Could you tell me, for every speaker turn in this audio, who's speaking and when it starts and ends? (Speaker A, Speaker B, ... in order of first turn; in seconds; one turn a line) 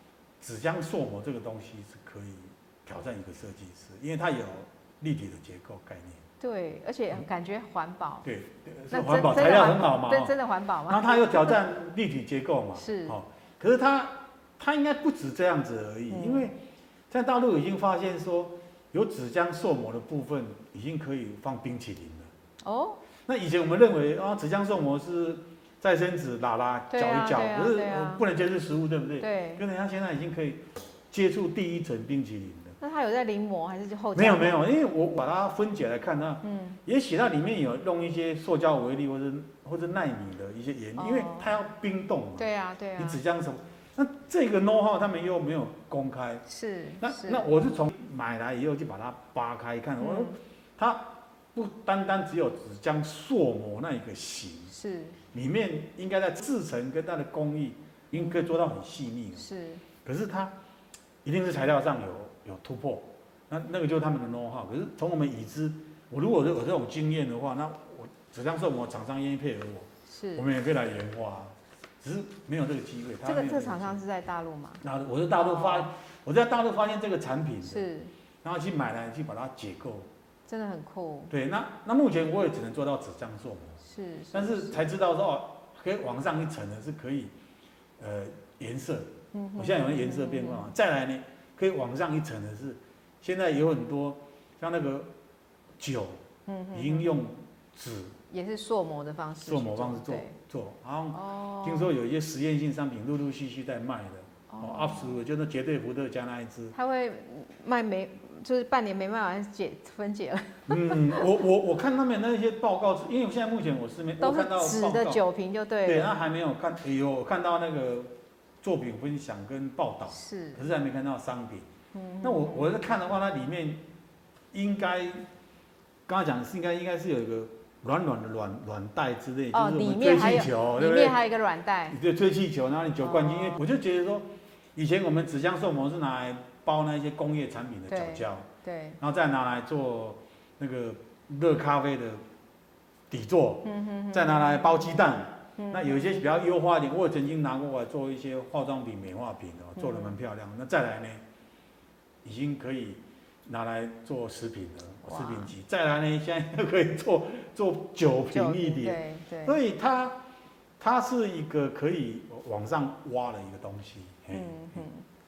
Speaker A: 0.4-6.2
Speaker B: 6.4-8.3
Speaker A: 8.2-10.3
Speaker B: 8.9-11.6
Speaker A: 10.9-16.6
Speaker B: 12.8-13.2
Speaker B: 16.1-16.5
Speaker A: 17.1-22.3
Speaker B: 22.6-23.0
Speaker A: 23.3-32.8
Speaker B: 26.9-28.2
Speaker B: 29.2-29.6
Speaker B: 32.8-34.6
Speaker A: 34.1-46.4
Speaker B: 36.4-36.8
Speaker B: 41.0-41.5
Speaker B: 42.4-43.2
Speaker B: 46.5-47.5
Speaker A: 47.0-54.7
Speaker B: 50.0-50.4
Speaker B: 54.7-55.2
Speaker A: 55.3-59.5
Speaker B: 58.2-58.5
Speaker B: 59.4-59.8
Speaker A: 60.0-60.5
Speaker A: 61.2-74.0
Speaker B: 70.1-70.5
Speaker B: 73.2-74.8
Speaker A: 74.8-77.9
Speaker B: 75.4-75.9
Speaker B: 77.6-78.1
Speaker A: 78.4-80.1
Speaker B: 80.5-81.3
Speaker A: 81.3-83.8
Speaker B: 83.8-84.8
Speaker A: 84.3-87.3
Speaker A: 88.0-95.1
Speaker B: 89.3-90.7
Speaker A: 95.8-98.2
Speaker B: 96.5-97.1
Speaker B: 98.3-100.3
Speaker A: 99.5-106.8
Speaker B: 101.1-101.9
Speaker B: 104.5-105.2
Speaker B: 106.7-111.3
Speaker A: 110.7-115.2
Speaker B: 114.2-116.1
Speaker A: 115.8-121.7
Speaker B: 120.1-120.6
Speaker B: 121.9-122.8
Speaker A: 122.2-123.8
Speaker A: 124.5-125.2
Speaker A: 126.1-131.2
Speaker B: 129.5-132.0
Speaker A: 131.9-138.5
Speaker B: 133.0-133.6
Speaker B: 137.9-139.0
Speaker A: 139.0-142.2
Speaker A: 143.1-151.2
Speaker B: 143.6-144.7
Speaker B: 145.6-146.2
Speaker B: 149.8-150.2
Speaker A: 152.2-160.2
Speaker B: 155.0-155.5
Speaker B: 158.3-159.6
Speaker A: 160.8-164.9
Speaker B: 164.3-165.1